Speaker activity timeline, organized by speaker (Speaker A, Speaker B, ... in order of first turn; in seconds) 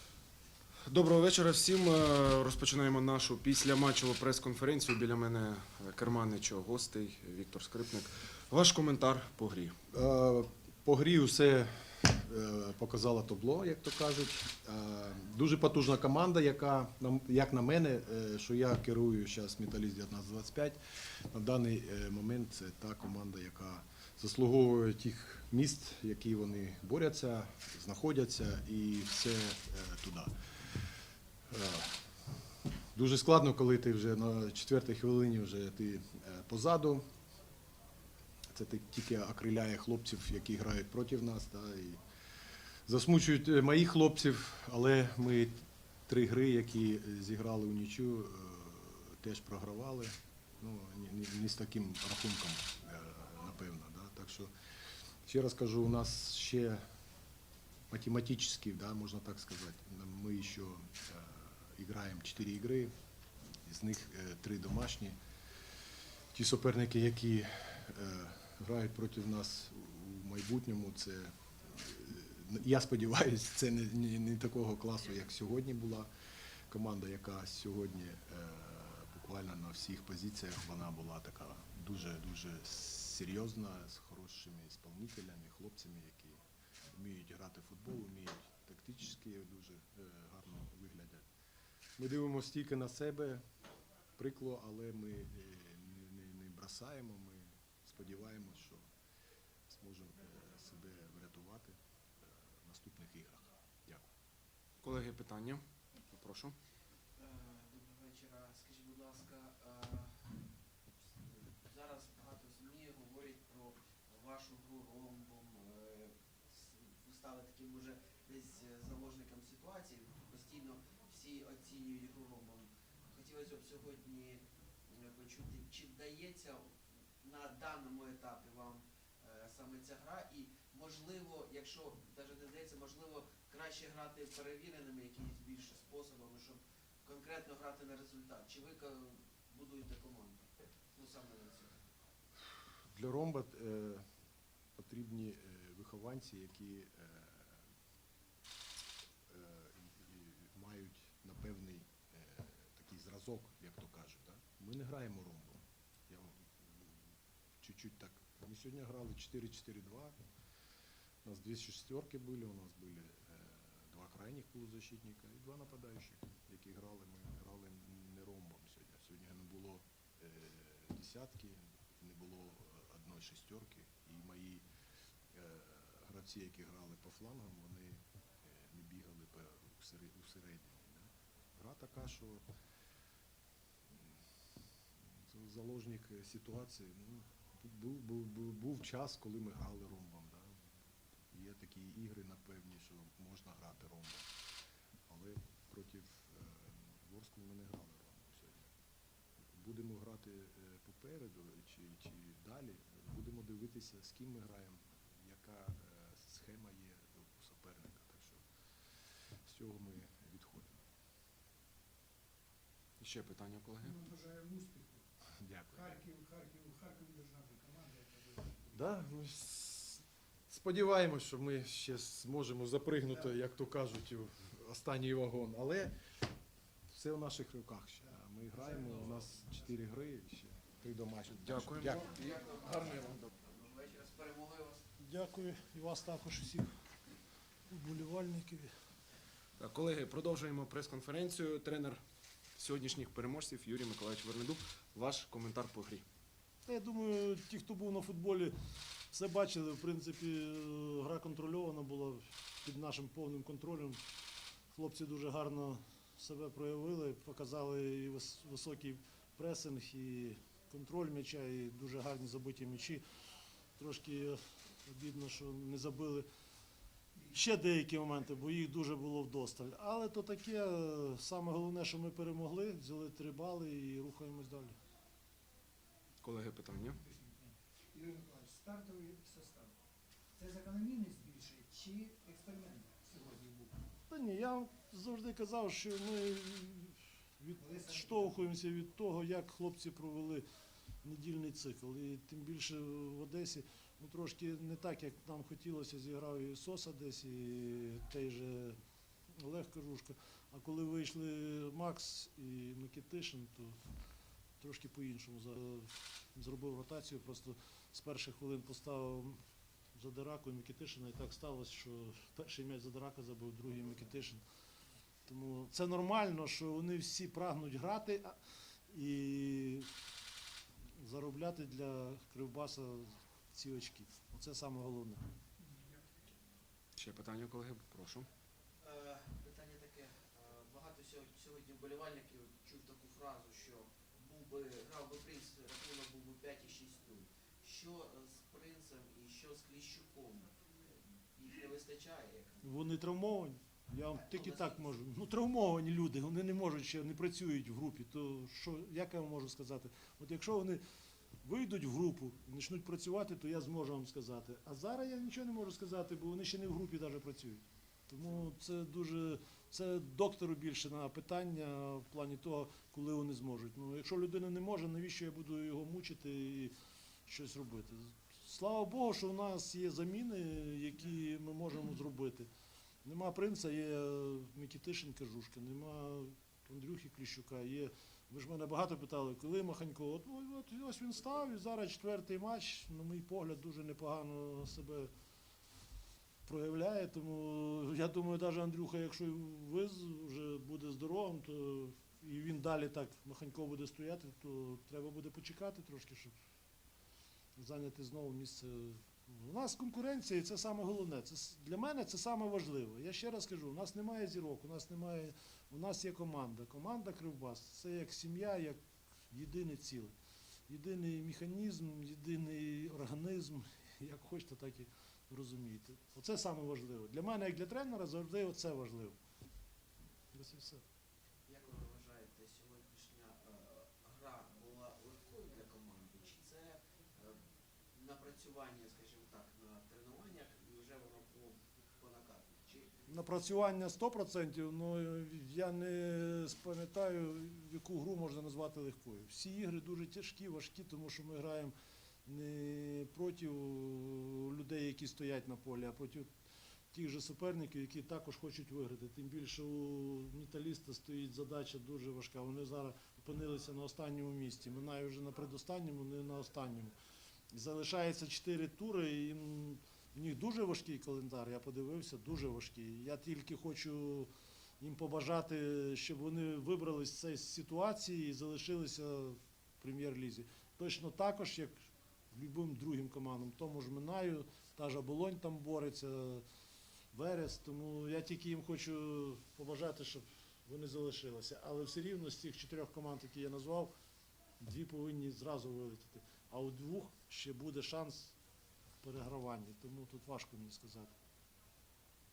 Speaker A: 0.8-9.8, 104.8-106.5, 213.0-213.9, 231.5-232.3, 239.6-242.0, 242.6-246.1, 276.2-277.0, 327.0-328.3
Speaker B: 9.9-30.3, 31.5-32.1, 32.9-37.0, 38.5-42.0, 42.9-54.5, 55.2-56.8, 57.9-62.9, 63.6-65.2, 66.3-76.1, 76.7-86.4, 86.9-91.3, 92.0-93.4, 94.2-98.9, 99.7-104.1, 142.8-144.1, 144.8-147.6, 149.3-156.9, 157.6-160.2, 161.2-174.6, 175.3-182.4, 183.9-184.2, 185.1-190.7, 191.3-194.3, 195.1-198.7, 199.5-208.4, 209.0-210.8, 215.4-216.0, 218.7-226.1, 226.9-232.2
Speaker C: 107.2-110.4, 111.0-141.8, 232.1-234.9, 328.8-342.7, 344.1-344.9, 421.5-427.4, 427.9-432.9
Speaker D: 213.9-215.0, 215.9-218.7, 276.9-279.7, 280.4-283.8
Speaker E: 235.0-236.7, 237.7-238.7, 246.7-248.5, 249.1-254.0, 254.7-263.0, 263.8-266.3, 267.3-274.8, 284.1-290.4, 291.0-298.8, 299.4-303.8, 304.6-309.4, 309.9-314.4, 315.3-318.4, 318.9-319.9, 320.9-325.2, 342.6-350.8, 351.4-366.7, 367.3-372.5, 373.0-385.1, 386.4-396.3, 397.6-410.1, 410.7-419.2, 420.3-420.8, 433.1-441.7, 442.3-446.3, 446.9-456.9, 457.5-476.4, 477.1-483.9, 484.6-488.4, 489.0-491.1